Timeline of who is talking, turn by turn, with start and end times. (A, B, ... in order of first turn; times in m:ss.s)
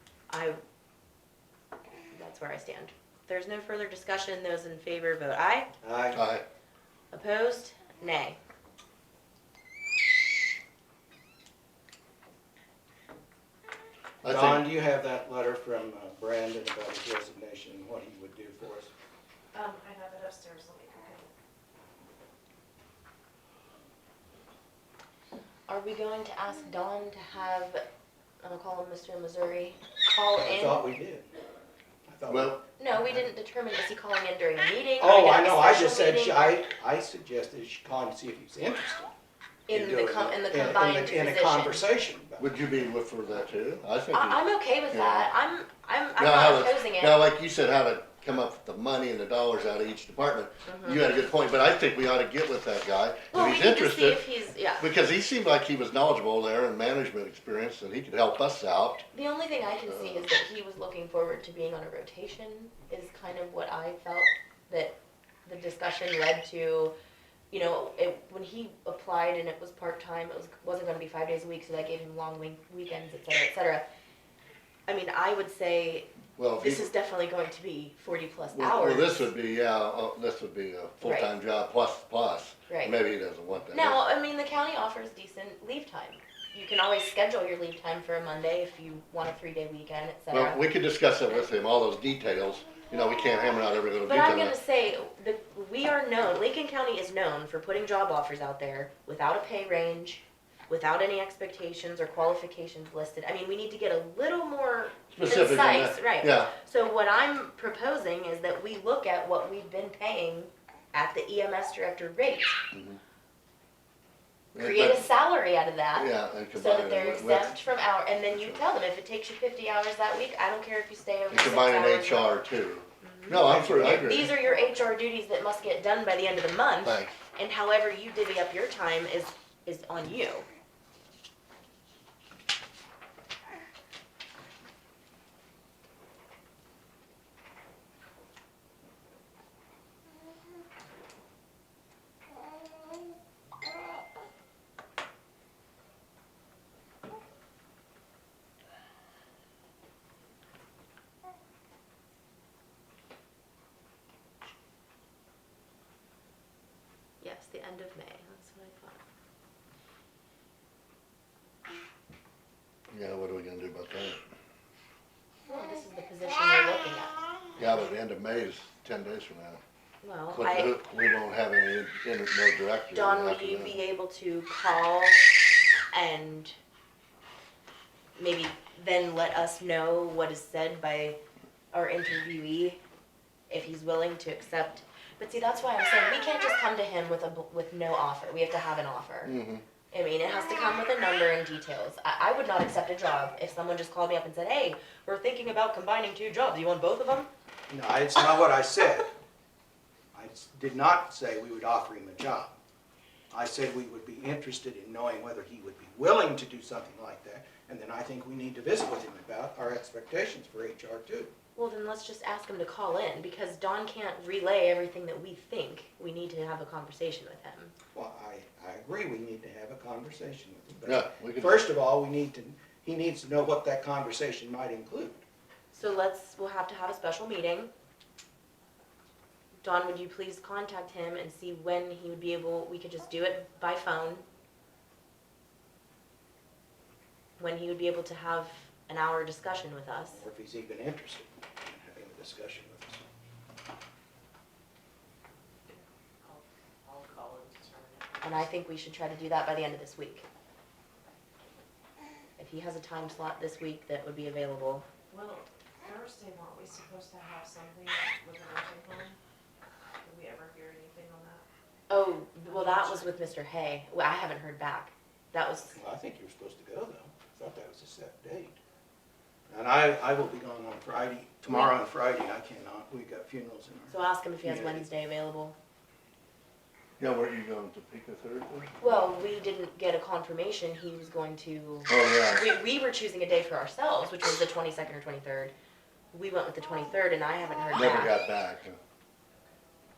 0:00.3-0:00.6 A
0:02.1-0:05.7 A
0:05.8-0:06.2 B
0:06.1-0:06.4 C
0:07.1-0:08.4 A
0:14.2-0:14.7 C
0:14.3-0:18.9 B
0:19.5-0:21.2 D
0:25.7-0:27.8 A
0:28.4-0:30.9 A
0:30.4-0:31.3 B
0:32.1-0:33.3 B
0:32.3-0:32.6 C
0:32.8-0:36.6 A
0:35.0-0:39.1 B
0:39.7-0:41.8 A
0:39.7-0:42.8 B
0:42.4-0:44.4 C
0:44.1-0:47.2 A
0:44.9-0:45.3 C
0:46.2-0:54.2 C
0:50.6-0:51.0 A
0:53.3-0:54.9 A
0:54.8-0:59.1 C
0:59.1-1:06.9 A
0:59.9-1:00.3 C
1:07.5-1:13.9 A
1:14.9-1:19.3 A
1:16.4-1:16.9 C
1:18.5-1:24.0 C
1:21.0-1:21.3 A
1:22.7-1:23.0 A
1:23.7-1:30.6 A
1:30.3-1:34.6 C
1:34.1-1:52.6 A
1:45.1-1:46.5 C
1:52.7-1:53.0 C
1:54.5-1:55.1 C
1:54.6-2:02.3 A
1:56.0-1:57.6 C
1:58.3-1:58.6 C
2:01.3-2:04.3 C
2:03.0-2:10.5 A
2:03.3-2:04.3 B
2:06.8-2:07.2 C
2:37.2-2:39.0 A
2:42.9-2:44.3 C
2:45.5-2:47.9 A
2:47.6-2:49.6 C
2:50.0-2:50.8 A
2:50.3-2:53.8 C
2:52.9-2:55.2 A
2:55.9-2:56.6 A
2:58.2-3:01.2 A
3:01.7-3:02.8 A
3:03.5-3:09.3 A
3:09.2-3:09.6 C
3:09.9-3:17.3 A
3:17.7-3:19.1 B
3:20.1-3:22.5 B
3:23.3-3:31.3 B
3:31.6-3:37.7 A
3:37.9-3:45.2 B
3:40.8-3:41.7 C
3:45.7-3:47.7 A
3:49.6-3:54.2 A
3:57.4-4:00.2 A
4:00.1-4:03.0 B
4:05.7-4:08.5 D
4:08.2-4:10.2 A
4:12.4-4:14.9 A
4:15.1-4:19.2 D
4:20.0-4:21.5 D
4:21.9-4:25.8 A
4:22.4-4:23.3 D
4:25.7-4:28.6 B
4:29.5-4:34.9 B
4:31.5-4:31.7 A
4:33.9-4:35.6 A
4:37.0-4:38.7 C
4:38.8-4:45.5 A
4:41.9-4:42.4 C
4:46.1-4:48.2 A
4:47.7-4:48.8 C